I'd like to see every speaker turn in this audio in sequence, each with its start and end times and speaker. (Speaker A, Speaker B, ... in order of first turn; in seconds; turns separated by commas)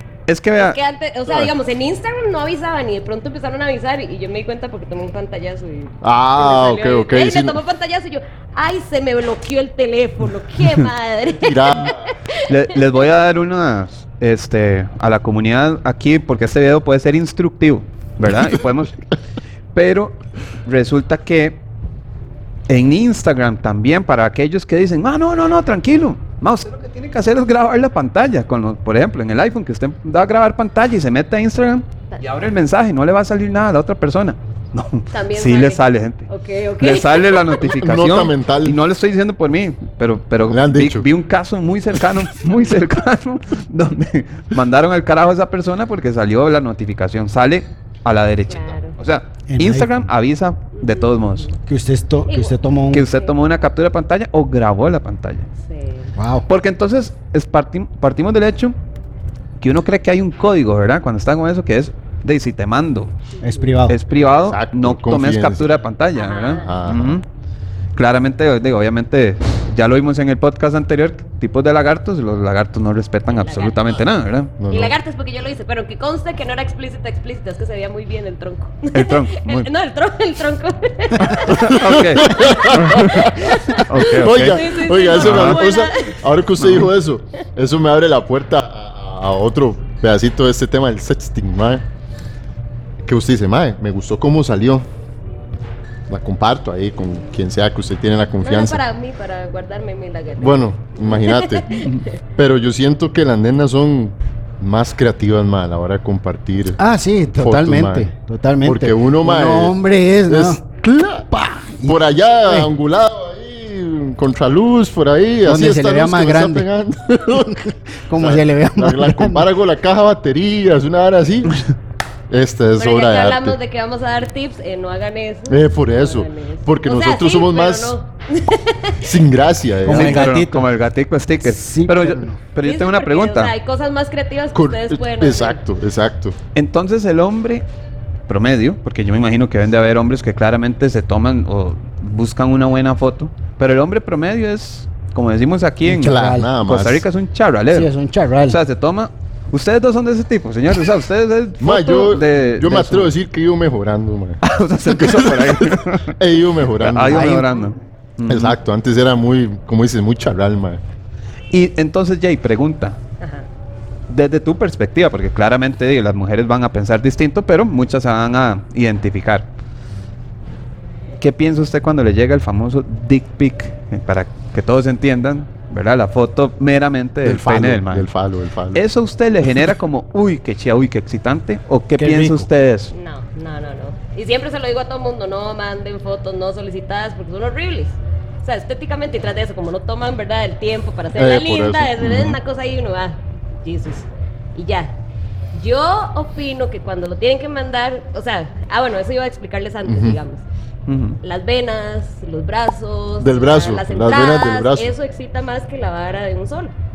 Speaker A: 0.3-0.8, Speaker B: 0.6-12.5, Speaker C: 6.0-7.6, Speaker C: 11.2-12.0, Speaker A: 12.5-19.0, Speaker A: 19.7-21.6, Speaker A: 22.7-36.3, Speaker B: 35.1-37.4, Speaker A: 36.8-51.5, Speaker C: 37.6-38.8, Speaker C: 40.5-41.1, Speaker B: 48.5-49.0, Speaker D: 49.5-50.1, Speaker B: 50.8-51.6, Speaker D: 51.6-53.0, Speaker B: 52.3-53.4, Speaker A: 52.9-55.5, Speaker B: 55.6-56.1, Speaker D: 56.1-56.5, Speaker A: 56.5-58.8, Speaker A: 59.6-63.1, Speaker D: 63.4-64.0, Speaker A: 63.9-67.2, Speaker C: 64.4-65.8, Speaker B: 66.2-66.7, Speaker C: 66.6-67.2, Speaker A: 68.0-74.5, Speaker B: 73.3-74.0, Speaker C: 74.6-75.0, Speaker B: 74.7-86.2, Speaker A: 78.9-79.7, Speaker A: 81.2-85.6, Speaker C: 81.5-91.8, Speaker A: 86.6-86.9, Speaker C: 93.0-94.9, Speaker C: 96.1-98.8, Speaker B: 98.4-102.1, Speaker C: 100.4-106.8, Speaker D: 106.8-110.6, Speaker C: 107.4-108.1, Speaker C: 108.6-121.6, Speaker D: 111.3-112.7, Speaker D: 115.5-116.7, Speaker D: 117.4-119.5, Speaker C: 122.3-123.6, Speaker B: 122.8-129.1, Speaker C: 125.5-127.9, Speaker C: 129.0-130.3, Speaker D: 129.8-130.7, Speaker A: 129.9-133.5, Speaker D: 131.4-132.4, Speaker B: 132.6-135.6, Speaker C: 134.5-136.4, Speaker A: 136.5-137.6, Speaker A: 138.3-147.9, Speaker D: 145.8-146.5, Speaker C: 145.9-147.0, Speaker D: 147.7-148.6, Speaker A: 148.4-153.1, Speaker C: 151.6-157.5, Speaker A: 154.4-156.2, Speaker A: 156.8-158.5, Speaker D: 157.1-157.6, Speaker C: 158.3-160.8, Speaker A: 161.5-163.0, Speaker B: 163.2-163.5, Speaker A: 164.1-169.5, Speaker A: 171.2-178.1, Speaker C: 177.2-178.8, Speaker A: 178.7-182.9, Speaker D: 181.9-182.5, Speaker B: 182.9-195.0, Speaker C: 191.1-192.4, Speaker B: 195.5-200.4, Speaker C: 199.9-200.2, Speaker A: 200.9-201.2, Speaker B: 201.2-206.7, Speaker C: 203.2-204.9